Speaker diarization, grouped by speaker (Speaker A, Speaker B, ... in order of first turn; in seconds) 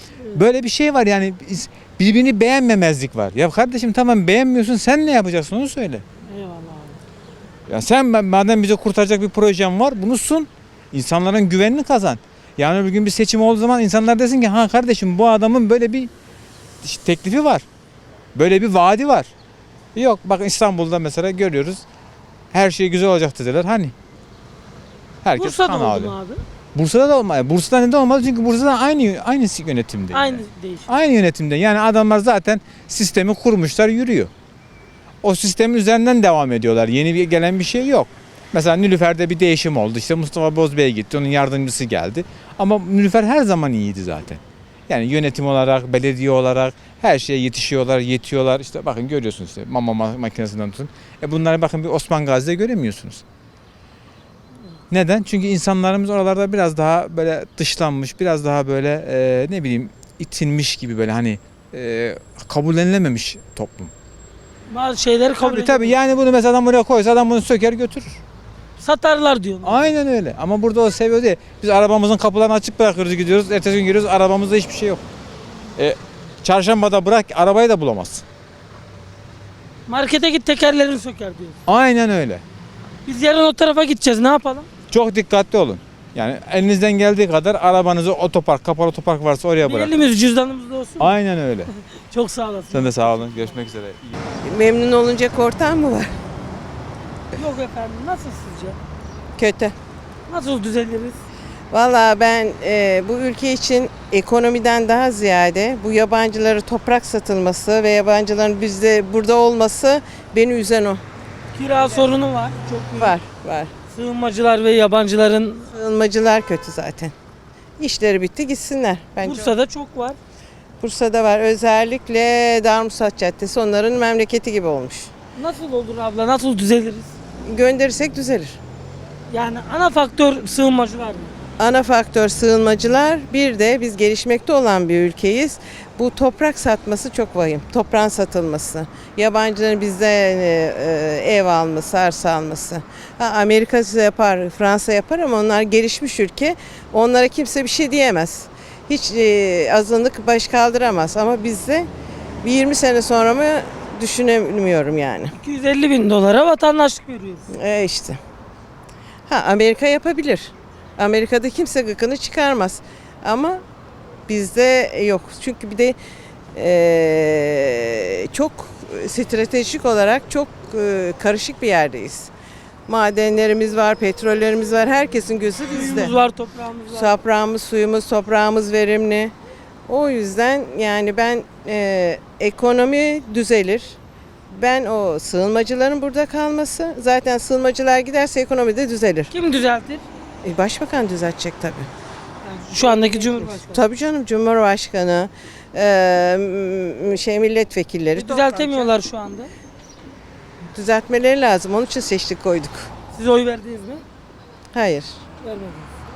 Speaker A: 0.3-6.0, 7.7-16.1, 16.8-17.6, 18.4-19.3, 19.9-21.9, 22.5-23.9, 25.2-26.2, 26.8-34.3, 35.2-53.2, 54.9-63.9, 65.4-68.2, 69.6-75.0, 75.8-78.2, 81.7-82.4, 84.9-90.0, 91.0-91.7, 92.7-94.0
Speaker B: 6.3-7.0, 25.4-26.4, 30.1-30.9, 64.7-66.0, 68.8-69.9, 79.9-81.6, 83.1-84.7, 89.6-91.2, 92.1-93.6, 97.4-98.8, 100.3-101.2, 111.5-113.2, 113.9-115.7, 119.2-120.2, 125.4-127.1, 129.3-131.3, 155.3-157.5, 175.7-177.1, 189.3-190.0, 192.4-193.8, 198.2-199.5, 203.1-204.0, 205.4-205.9
Speaker C: 94.5-96.1, 99.4-99.8, 101.7-111.0, 113.0-113.7, 115.7-117.1, 117.8-119.5, 120.8-125.1, 127.5-128.6, 131.6-151.9, 152.4-155.3, 157.6-158.2, 159.3-163.6, 164.3-166.0, 166.6-172.3, 172.9-176.2, 176.9-179.3, 179.9-184.0, 184.5-189.3, 190.4-191.9, 192.8-198.9, 200.8-202.9, 204.7-205.1